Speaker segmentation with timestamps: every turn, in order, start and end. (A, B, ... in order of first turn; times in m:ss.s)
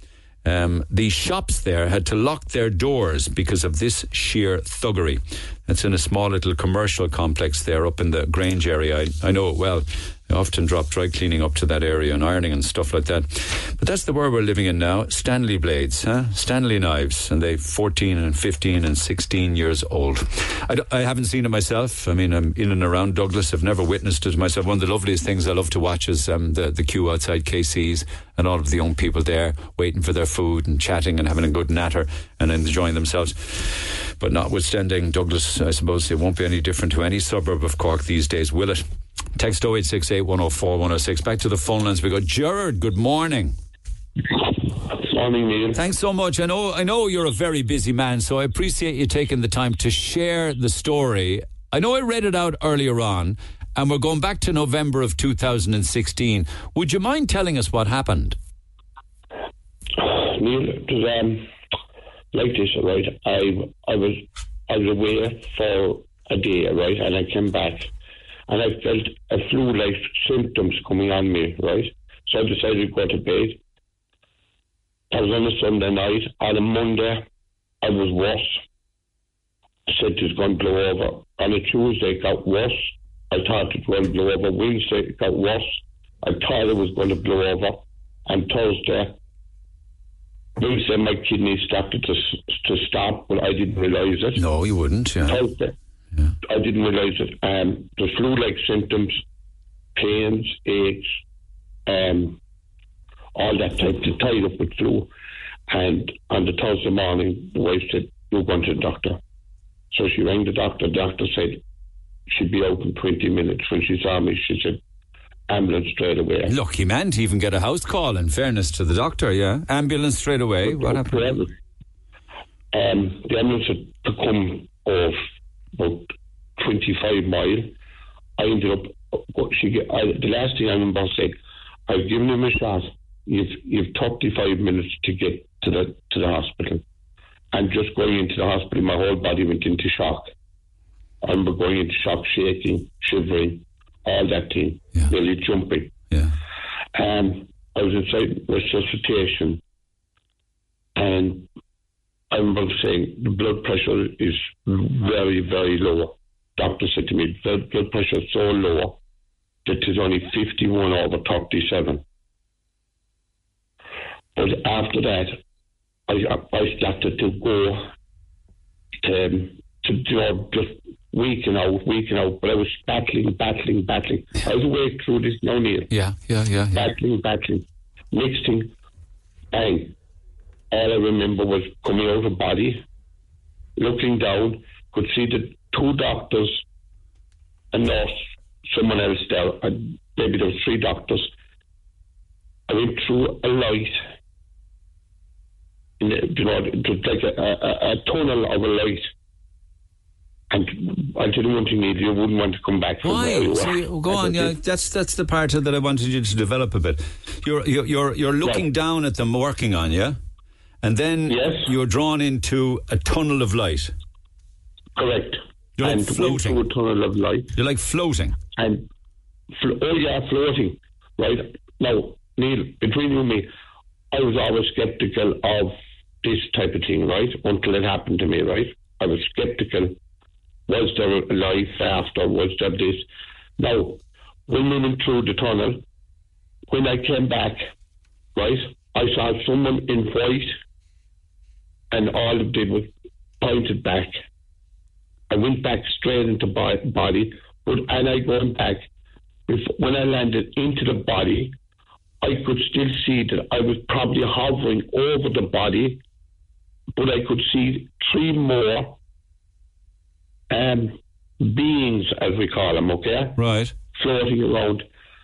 0:00.4-0:38.8 A
0:39.3-0:43.6 A
0:44.4-0:45.8 B
0:45.7-0:58.4 A
1:00.0-1:01.5 B
1:02.3-1:07.9 B
1:08.5-1:13.6 B
1:15.1-1:17.2 B
1:17.8-1:18.6 B
1:19.9-1:29.1 B
1:30.6-1:34.4 B
1:34.4-1:35.4 A
1:35.2-1:35.7 B
1:36.4-1:39.2 B
1:40.0-1:41.1 B
1:41.8-1:42.4 B
1:43.3-1:45.1 B
1:45.7-1:49.2 B
1:49.9-1:51.6 B
1:52.3-1:54.8 B
1:55.5-1:56.5 B
1:56.4-2:01.4 A
2:00.6-2:01.5 B
2:02.7-2:05.2 B
2:05.8-2:07.7 B
2:08.4-2:11.4 B
2:11.9-2:16.8 B
2:17.5-2:20.3 B
2:21.2-2:25.9 B
2:26.9-2:29.6 B
2:31.0-2:31.5 B
2:32.3-2:39.0 B
2:39.6-2:42.0 B
2:44.3-2:45.4 B
2:46.1-2:47.9 B
2:49.0-2:55.9 B
2:55.9-2:56.9 A
2:56.7-2:58.7 B
2:59.5-2:59.9 B
3:00.7-3:02.8 B
3:03.8-3:06.6 B
3:07.7-3:11.3 B
3:12.7-3:14.0 B
3:16.0-3:19.1 B
3:20.5-3:24.5 B
3:23.0-3:30.2 A
3:30.8-3:33.9 A
3:31.3-3:31.7 B
3:35.0-3:37.5 B
3:35.8-3:36.6 A
3:37.5-3:38.4 A
3:38.6-3:38.8 B
3:39.6-3:43.5 B
3:44.1-3:50.0 B
3:50.7-3:53.0 B
3:53.6-3:55.8 B
3:56.7-3:57.7 B
3:58.3-4:00.6 B
4:01.9-4:04.2 B
4:05.3-4:08.8 B
4:09.5-4:11.5 B
4:12.2-4:16.0 B
4:16.9-4:18.9 B
4:20.5-4:23.4 B
4:23.4-4:23.7 A
4:23.9-4:24.8 B